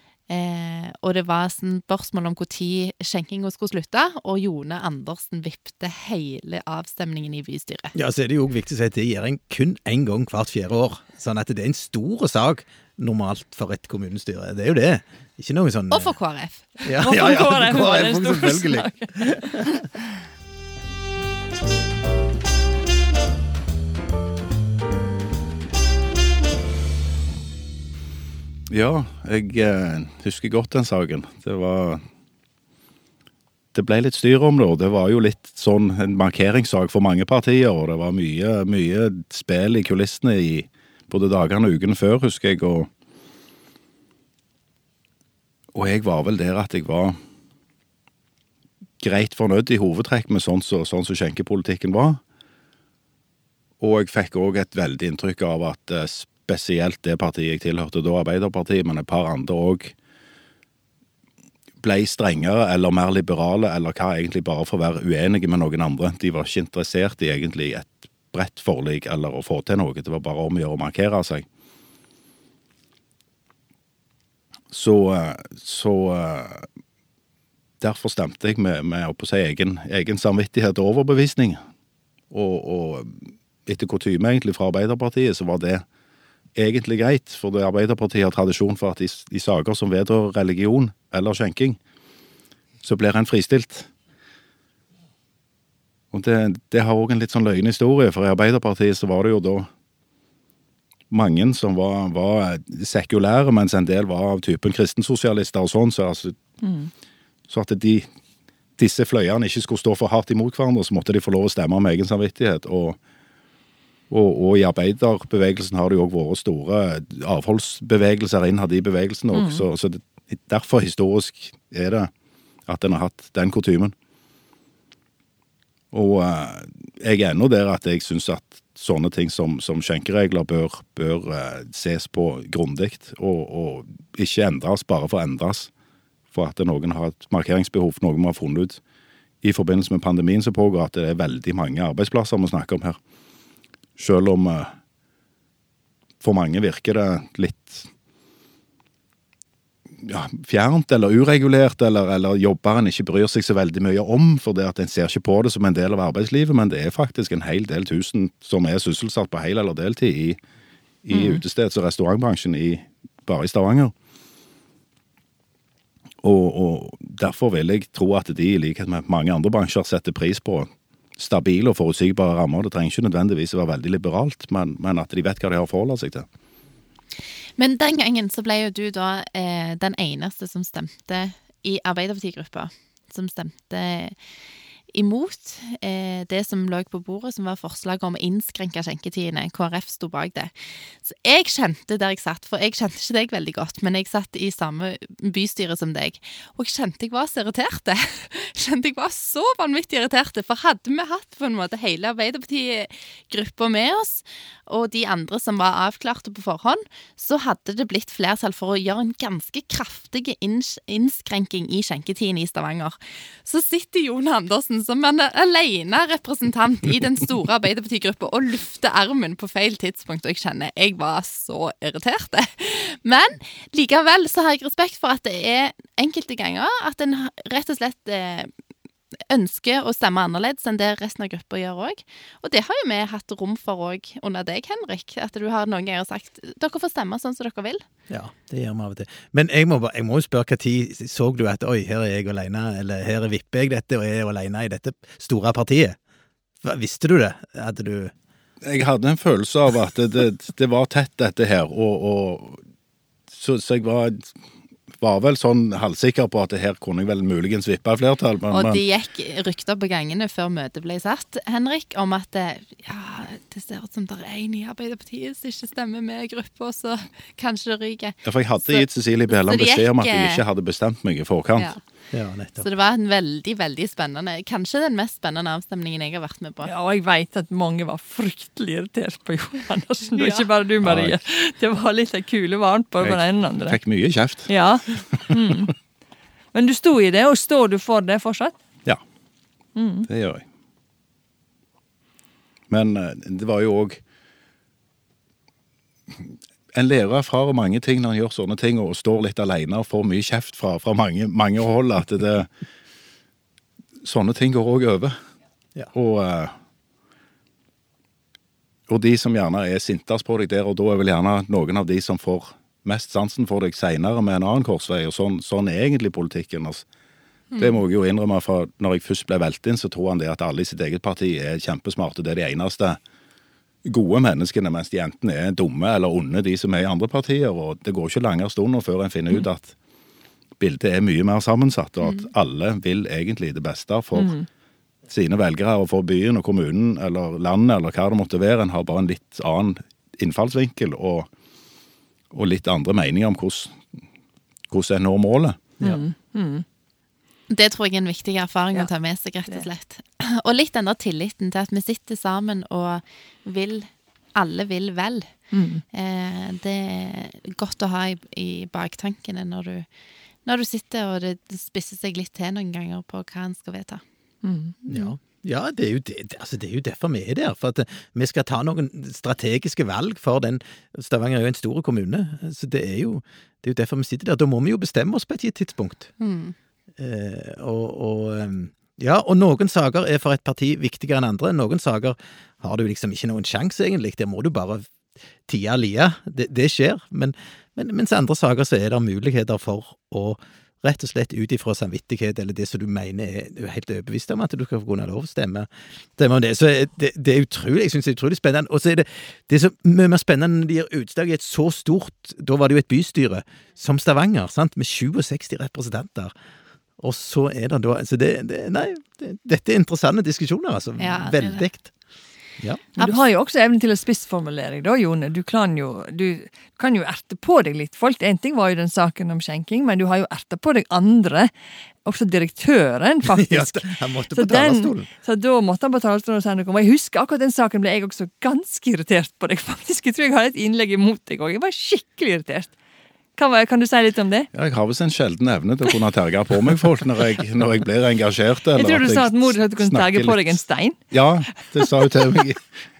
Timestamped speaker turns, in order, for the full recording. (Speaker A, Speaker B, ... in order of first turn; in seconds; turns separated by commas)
Speaker A: 0.3-7.9, Speaker B: 7.9-16.1, Speaker A: 15.9-16.6, Speaker B: 16.8-19.7, Speaker C: 17.0-19.9, Speaker D: 28.7-32.0, Speaker D: 33.7-42.9, Speaker D: 45.7-47.2, Speaker D: 49.0-52.2, Speaker D: 53.8-59.9, Speaker D: 61.8-71.5, Speaker D: 74.7-76.7, Speaker D: 77.8-81.6, Speaker D: 82.3-85.8, Speaker D: 86.5-91.8, Speaker D: 92.8-93.9, Speaker D: 96.1-99.7, Speaker D: 101.1-106.4, Speaker C: 106.6-106.9, Speaker D: 107.5-108.1, Speaker D: 108.8-113.0, Speaker D: 114.1-122.1, Speaker C: 119.3-119.6, Speaker D: 122.7-123.9, Speaker D: 125.9-135.7, Speaker D: 136.3-138.8, Speaker D: 139.4-143.0, Speaker D: 144.0-144.7, Speaker D: 146.2-147.9, Speaker D: 150.0-160.4, Speaker D: 161.0-163.9, Speaker A: 161.1-161.4, Speaker D: 166.2-176.3, Speaker A: 177.6-184.1, Speaker A: 184.9-228.5, Speaker A: 229.3-237.8, Speaker B: 238.1-246.0, Speaker B: 246.6-248.1, Speaker D: 248.6-252.6, Speaker D: 253.3-254.3, Speaker D: 255.0-258.8, Speaker A: 258.5-270.4, Speaker D: 268.2-271.7, Speaker B: 272.1-272.7, Speaker A: 272.6-276.7, Speaker C: 276.6-283.8, Speaker A: 280.1-280.4, Speaker D: 280.8-281.2, Speaker D: 283.0-285.5, Speaker C: 284.5-285.7, Speaker C: 286.5-288.5, Speaker C: 289.8-290.1, Speaker D: 290.1-290.4, Speaker D: 292.7-294.0, Speaker D: 296.7-302.5, Speaker D: 304.0-305.2, Speaker D: 305.9-306.5, Speaker D: 308.9-316.9, Speaker A: 317.5-317.8, Speaker D: 317.6-323.0, Speaker D: 323.8-329.7, Speaker D: 330.6-334.4, Speaker C: 334.1-334.4, Speaker D: 335.1-341.3, Speaker D: 342.3-343.8, Speaker D: 344.7-345.6, Speaker C: 345.8-346.6, Speaker A: 347.5-359.9, Speaker C: 355.5-355.8, Speaker A: 360.4-364.0, Speaker C: 364.4-364.7, Speaker A: 364.8-365.1, Speaker B: 364.9-376.1, Speaker A: 376.2-376.5, Speaker B: 377.0-384.9, Speaker B: 385.5-406.3, Speaker B: 407.0-411.9, Speaker A: 411.0-411.6, Speaker C: 413.0-421.5, Speaker C: 422.0-432.7, Speaker B: 423.2-425.1, Speaker C: 433.4-434.5, Speaker D: 434.5-440.6, Speaker C: 438.7-441.8, Speaker D: 441.1-442.6